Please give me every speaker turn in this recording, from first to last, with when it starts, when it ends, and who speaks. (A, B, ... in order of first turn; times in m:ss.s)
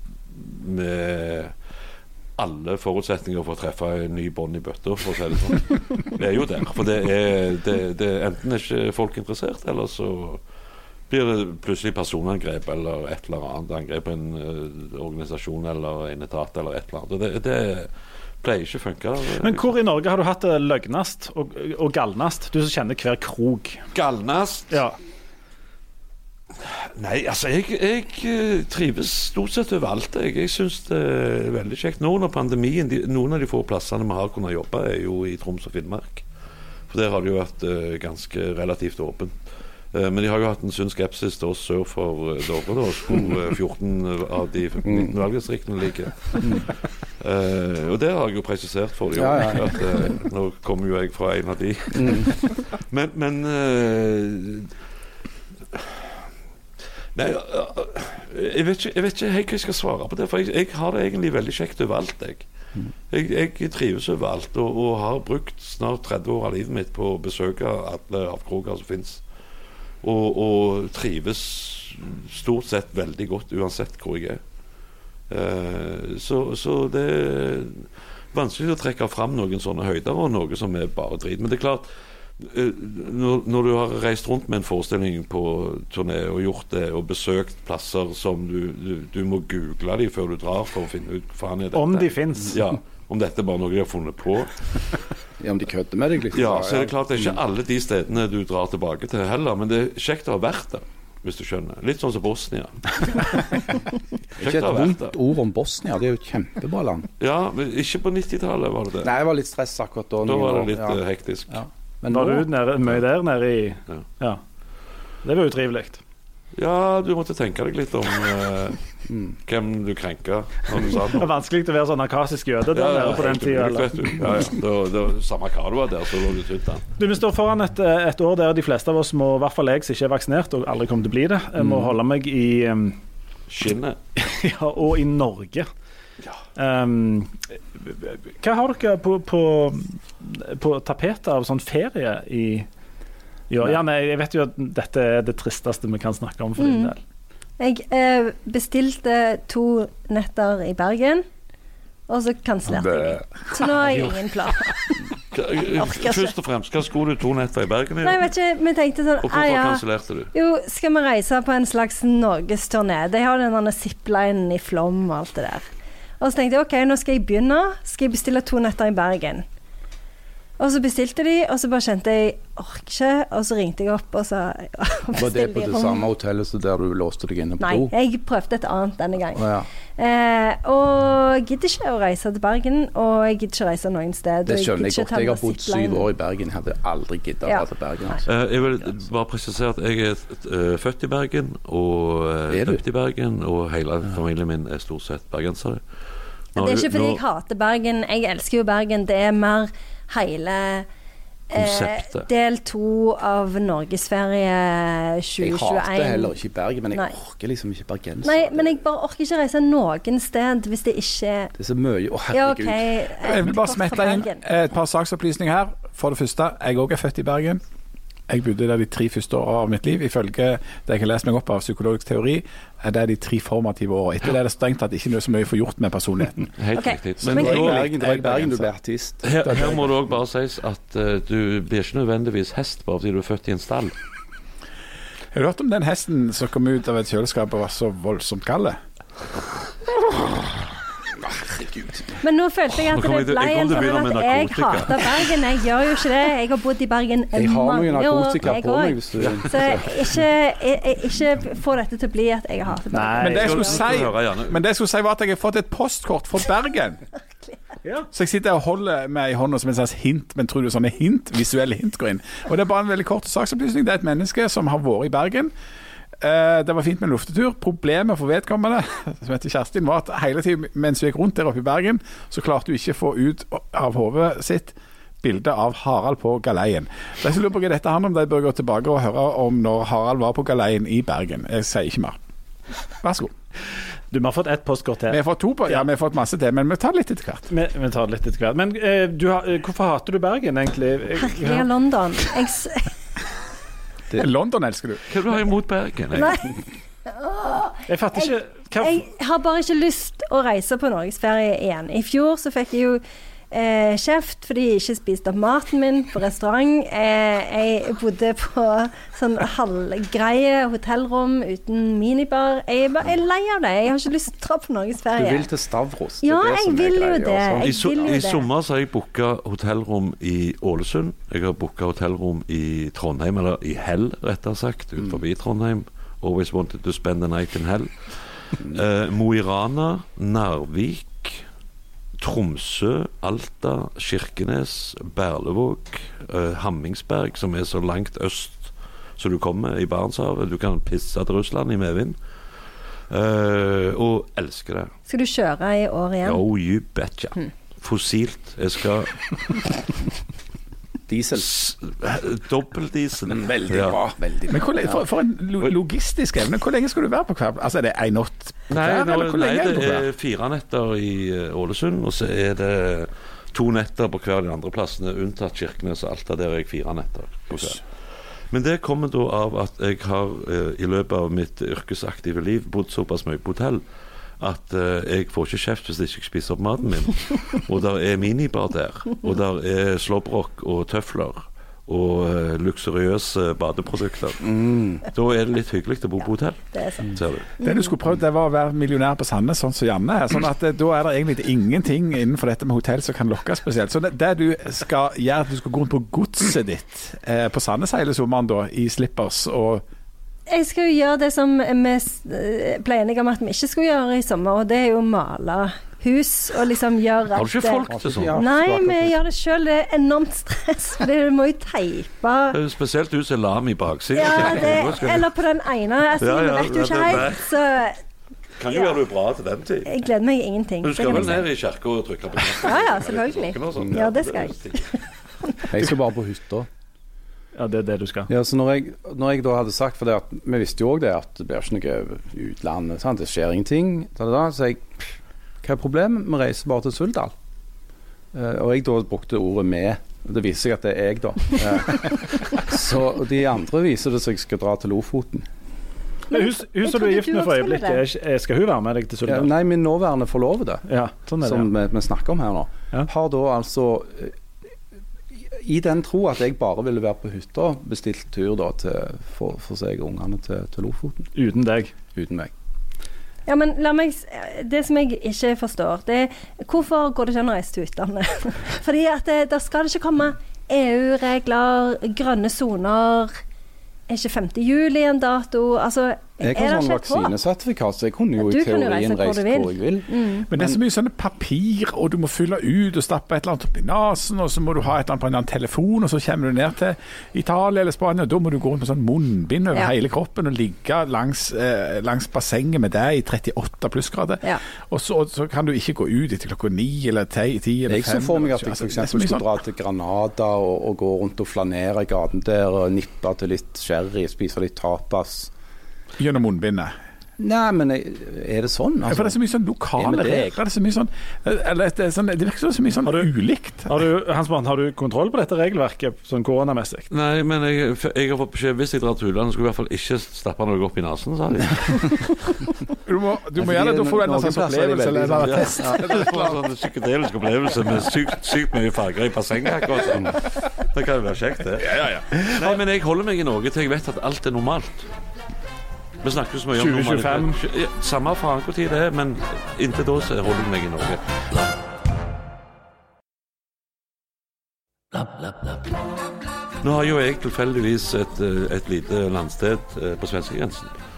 0:00.3-0:01.5 A
0:02.4-0:10.4 A
0:11.1-0:17.9 A
0:18.4-0:19.7 A
0:19.4-0:23.8 B
0:23.9-0:24.8 A
0:24.7-0:25.0 B
0:26.6-0:36.2 A
0:36.9-0:39.3 A
0:39.9-0:46.7 A
0:44.8-0:45.1 C
0:46.4-0:46.7 C
0:47.2-0:54.7 A
0:49.2-0:50.1 C
0:51.9-0:52.3 C
0:57.2-1:02.5 A
1:03.1-1:09.2 A
1:10.0-1:14.4 A
1:15.3-1:21.9 A
1:22.4-1:34.5 A
1:31.7-1:32.6 B
1:35.4-1:37.4 C
1:36.3-1:43.5 A
1:44.4-1:45.2 A
1:44.4-1:47.1 C
1:47.2-1:49.1 A
1:49.0-1:51.0 C
1:50.2-1:51.6 A
1:51.5-1:52.5 C
1:52.1-1:54.4 B
1:55.2-1:56.0 B
1:56.6-1:58.8 A
1:59.1-1:59.4 C
1:59.5-2:01.3 A
2:00.9-2:04.2 B
2:02.7-2:06.8 A
2:07.0-2:13.0 B
2:13.5-2:14.0 A
2:14.2-2:15.7 B
2:16.6-2:22.7 B
2:23.5-2:27.0 B
2:26.6-2:26.9 D
2:27.6-2:31.2 D
2:32.1-2:35.1 D
2:32.7-2:33.3 C
2:35.3-2:38.3 A
2:35.7-2:36.3 D
2:38.0-2:45.7 D
2:39.2-2:40.3 A
2:46.2-2:49.4 D
2:50.6-2:56.0 D
2:55.2-2:57.9 C
2:57.6-3:06.1 D
2:59.4-2:59.7 C
3:04.5-3:08.3 C
3:08.2-3:15.8 A
3:12.5-3:12.8 C
3:16.6-3:17.2 A
3:16.6-3:20.9 D
3:21.5-3:26.3 D
3:21.6-3:22.3 A
3:25.4-3:28.8 C
3:28.2-3:31.5 D
3:31.6-3:32.9 C
3:32.3-3:34.4 D
3:33.2-3:37.6 E
3:38.3-3:46.5 E
3:46.6-3:47.9 A
3:46.8-3:47.7 D
3:47.2-3:49.9 C
3:47.4-3:48.7 E
3:49.2-3:53.9 A
3:55.3-3:58.8 E
4:01.3-4:02.1 C
4:02.2-4:13.8 D
4:02.8-4:05.3 A
4:07.4-4:10.2 C
4:09.2-4:09.7 A
4:12.9-4:13.6 B
4:13.2-4:17.0 E
4:13.4-4:14.6 A
4:17.8-4:18.1 B
4:18.1-4:25.5 E
4:26.2-4:42.2 E
4:43.0-4:43.3 E
4:44.1-4:45.2 B
4:45.1-4:47.5 E
4:47.5-4:51.7 B
4:51.2-4:52.9 D
4:54.1-4:55.1 E
4:55.1-4:56.5 A
4:56.2-4:56.5 D
4:57.1-5:15.5 D
4:57.9-4:59.0 B
5:15.1-5:18.2 C
5:16.2-5:18.5 D
5:17.6-5:31.4 A
5:32.2-5:42.2 A
5:43.1-5:44.9 A
5:45.1-5:46.4 D
5:46.2-5:49.6 A
5:51.1-5:51.6 C
5:51.4-5:54.0 A
5:53.3-5:55.0 C
5:54.5-6:00.1 E
5:58.7-6:07.8 A
6:08.5-6:13.8 A
6:14.4-6:27.5 A
6:24.4-6:25.0 C
6:26.7-6:27.0 D
6:27.6-6:39.8 E
6:40.5-6:52.6 D
6:47.3-6:48.4 A
6:47.9-6:49.1 C
6:52.5-6:55.3 A
6:54.1-6:58.0 D
6:56.2-6:57.5 A
6:58.6-6:59.9 A
6:58.7-6:59.0 D
6:59.8-7:01.5 D
7:00.8-7:04.8 A
7:02.5-7:05.0 D
7:03.8-7:04.0 C
7:05.7-7:06.7 C
7:07.6-7:08.3 B
7:08.3-7:15.1 C
7:15.6-7:17.3 C
7:18.3-7:25.5 C
7:26.3-7:29.5 B
7:26.3-7:28.0 D
7:29.3-7:30.9 C
7:30.9-7:31.7 B
7:31.4-7:34.4 C
7:35.5-7:41.3 C
7:41.4-7:41.9 B
7:42.1-7:42.5 C
7:43.5-7:53.4 D
7:54.1-7:57.3 D
7:56.4-8:00.8 C
7:58.4-8:00.5 D
8:00.5-8:19.5 E
8:17.9-8:25.5 C
8:26.2-8:26.9 E
8:27.4-8:29.4 C
8:29.1-8:33.9 E
8:30.0-8:30.5 C
8:33.9-8:37.1 B
8:37.1-8:42.2 A
8:43.0-8:46.6 E
8:43.6-8:46.5 C
8:45.8-8:55.1 A
8:51.9-8:52.4 E
8:56.2-9:01.7 A
8:56.7-8:57.6 B
9:05.1-9:05.9 A
9:06.8-9:10.9 A